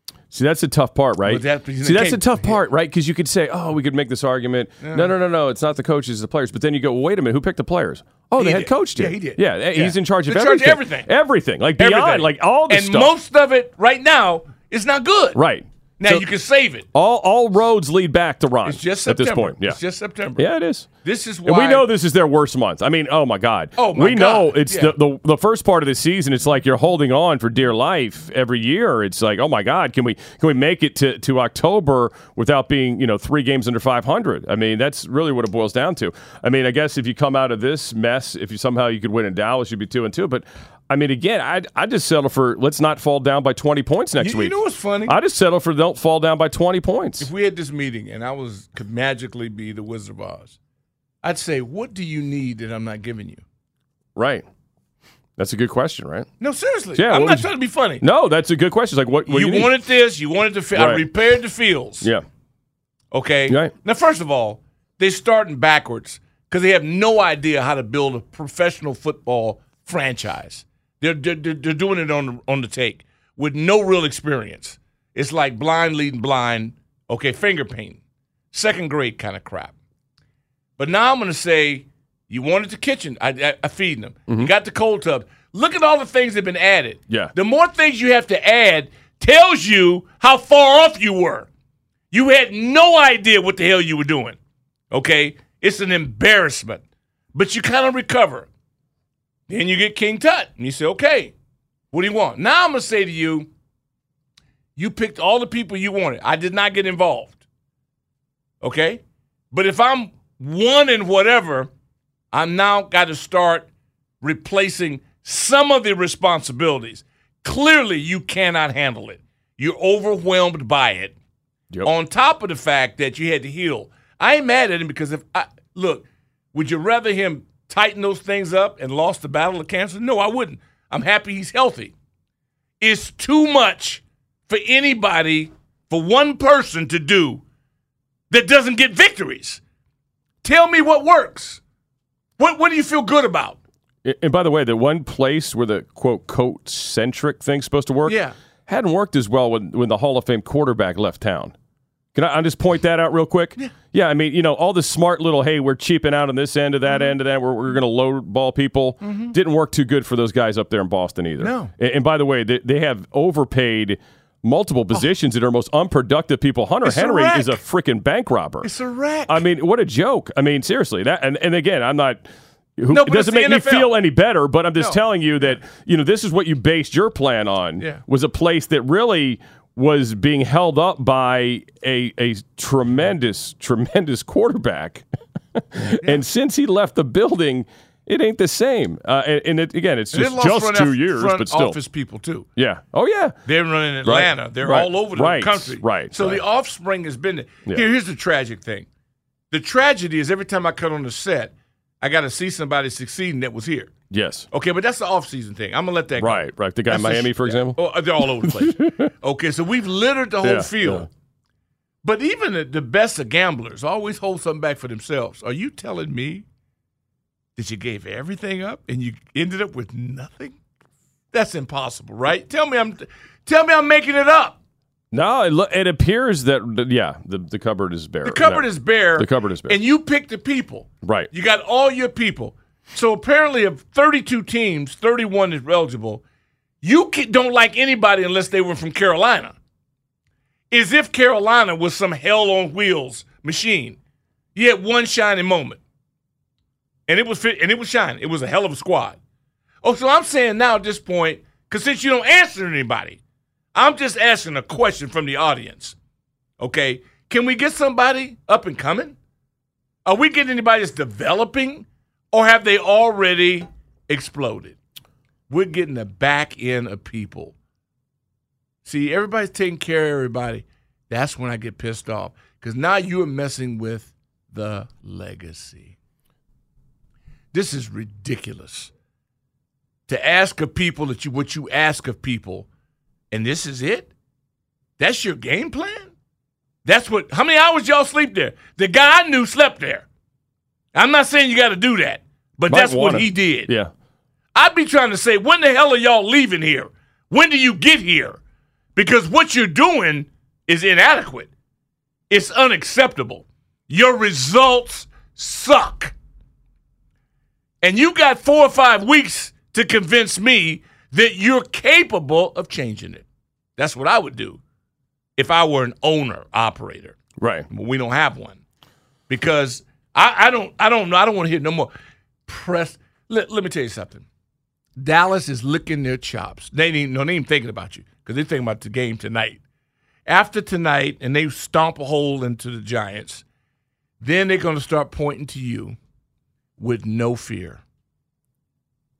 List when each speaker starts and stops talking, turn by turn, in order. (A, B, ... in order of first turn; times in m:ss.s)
0:00.3-0:13.1 A
0:01.2-0:02.6 B
0:04.8-0:05.1 B
0:08.4-0:11.1 B
0:11.8-0:15.4 B
0:15.3-0:16.2 A
0:16.0-0:16.9 B
0:16.9-0:19.8 A
0:18.6-0:20.4 B
0:20.4-0:20.9 A
0:21.0-0:21.9 B
0:21.4-0:44.5 A
0:23.8-0:24.9 B
0:44.2-0:45.2 B
0:45.1-0:47.3 A
0:47.2-0:50.6 B
0:51.2-0:53.4 B
0:54.2-0:54.4 A
0:55.4-0:56.3 A
0:56.4-0:58.0 B
0:57.0-0:57.5 A
0:58.0-0:59.7 A
0:59.3-1:02.1 B
1:00.7-1:01.0 A
1:03.1-1:18.0 B
1:18.5-1:19.7 B
1:20.8-1:31.5 B
1:32.1-1:34.4 B
1:34.9-1:36.8 B
1:37.3-1:38.5 B
1:39.5-1:41.3 B
1:41.9-1:43.5 B
1:44.8-1:47.4 B
1:48.6-1:49.0 B
1:49.5-1:51.7 B
1:52.3-1:53.7 B
1:54.2-2:01.2 B
2:01.8-2:11.9 B
2:12.8-2:17.4 B
2:18.3-2:19.6 B
2:20.4-2:21.6 B
2:22.4-2:23.6 B
2:24.0-2:31.5 A
2:28.0-2:28.3 B
2:32.1-2:48.7 A
2:36.9-2:37.2 B
2:39.0-2:39.3 B
2:41.4-2:41.7 B
2:46.8-2:47.6 B
2:48.6-2:49.4 B
2:49.3-2:52.2 A
2:52.8-3:05.0 A
2:52.9-2:54.0 B
2:54.8-2:55.6 B
3:05.5-3:11.8 A
3:10.1-3:12.5 B
3:12.6-3:13.4 A
3:13.4-3:18.9 B
3:14.0-3:16.4 A
3:19.5-3:23.9 B
3:24.1-3:24.5 A
3:24.5-3:31.1 B
3:26.2-3:27.8 A
3:28.4-3:29.0 A
3:30.4-3:31.1 A
3:32.0-3:36.4 B
3:37.6-3:40.6 B
3:41.3-3:44.6 B
3:45.1-3:48.6 A
3:48.2-3:56.2 B
3:49.2-3:49.8 A
3:51.0-3:51.3 A
3:56.8-3:59.5 B
4:00.7-4:04.0 B
4:04.5-4:05.8 B
4:07.1-4:09.2 B
4:09.8-4:13.2 B
4:13.7-4:15.9 B
4:16.6-4:19.2 B
4:20.0-4:24.8 B
4:25.5-4:27.5 B
4:28.8-4:35.9 B
4:37.5-4:38.9 B
4:40.1-4:42.7 B
4:43.3-4:44.1 B
4:45.0-4:46.1 B
4:46.8-4:50.0 B
4:50.9-4:53.7 B
4:52.7-4:53.9 A
4:54.5-4:58.4 B
4:58.9-5:01.5 B
5:02.3-5:06.1 B
5:07.8-5:13.2 B
5:13.8-5:14.6 B
5:15.4-5:17.2 B
5:17.4-5:17.6 A
5:17.7-5:18.6 B
5:19.3-5:21.9 B
5:22.5-5:24.2 B
5:25.0-5:29.6 B
5:30.2-5:33.4 B
5:34.2-5:36.0 B
5:36.8-5:37.8 B